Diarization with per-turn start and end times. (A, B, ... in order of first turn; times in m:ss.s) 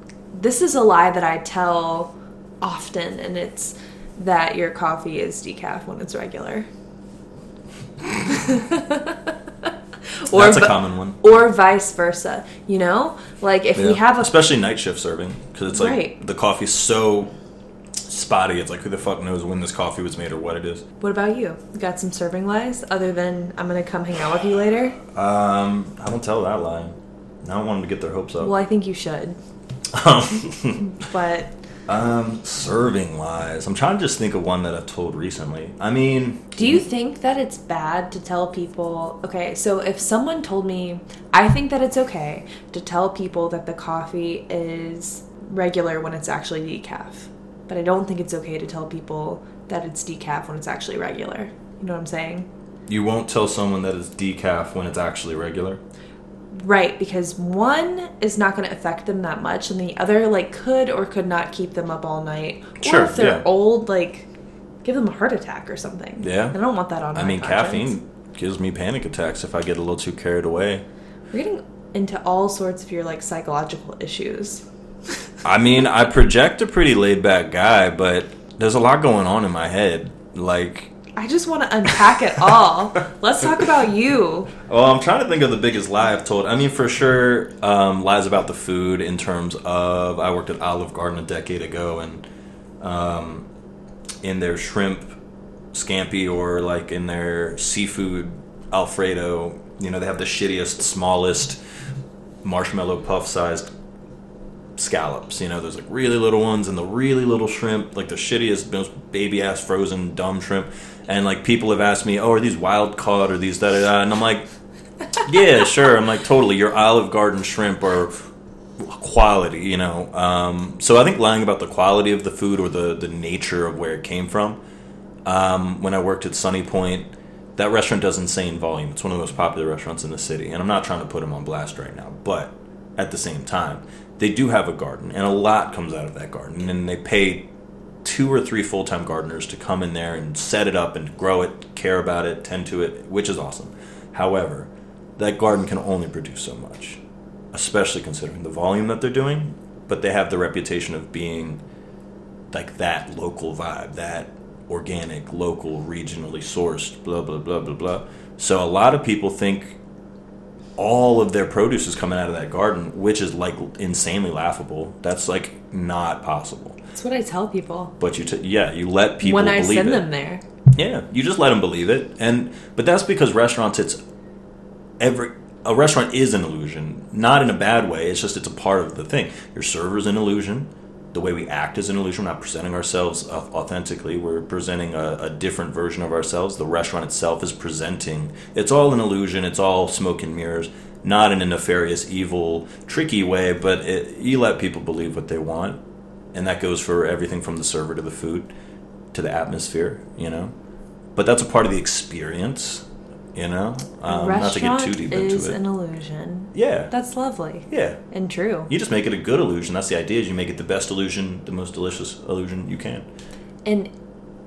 0:00.3-0:06.7 A
0:08.2-0:09.7 A
0:10.2-0:14.3 A
0:10.3-0:11.2 B
0:13.8-0:17.3 B
0:15.7-0:16.1 A
0:18.0-0:20.8 B
0:21.0-0:25.0 A
0:25.1-0:28.5 B
0:28.4-0:29.4 A
0:29.9-0:30.9 B
0:30.8-0:31.5 A
0:31.9-0:36.8 B
0:36.6-0:52.5 A
0:52.9-0:55.8 B
0:56.5-1:04.3 A
1:02.8-1:03.4 B
1:04.8-1:07.9 A
1:06.2-1:06.6 B
1:07.1-1:10.8 B
1:11.3-1:14.6 A
1:15.4-1:20.9 B
1:21.2-1:24.5 A
1:21.9-1:22.5 B
1:23.4-1:23.7 B
1:24.5-1:32.2 B
1:32.8-1:33.5 B
1:34.2-1:35.1 B
1:35.7-1:41.6 B
1:42.4-1:43.7 B
1:44.8-1:54.4 B
1:55.1-1:58.1 B
1:58.8-2:04.6 B
2:05.2-2:17.5 B
2:18.0-2:27.0 B
2:27.5-2:31.6 B
2:32.5-2:39.8 B
2:40.8-2:46.8 B
2:46.9-2:47.9 A
2:48.0-2:50.0 B
2:49.2-2:50.4 A
2:50.7-2:54.0 B
2:55.0-3:15.8 B
3:16.3-3:18.5 B
3:19.1-3:20.5 B
3:21.2-3:25.6 B
3:24.1-3:28.7 A
3:26.5-3:26.9 B
3:27.7-3:28.0 B
3:28.7-3:33.1 B
3:33.6-3:33.9 A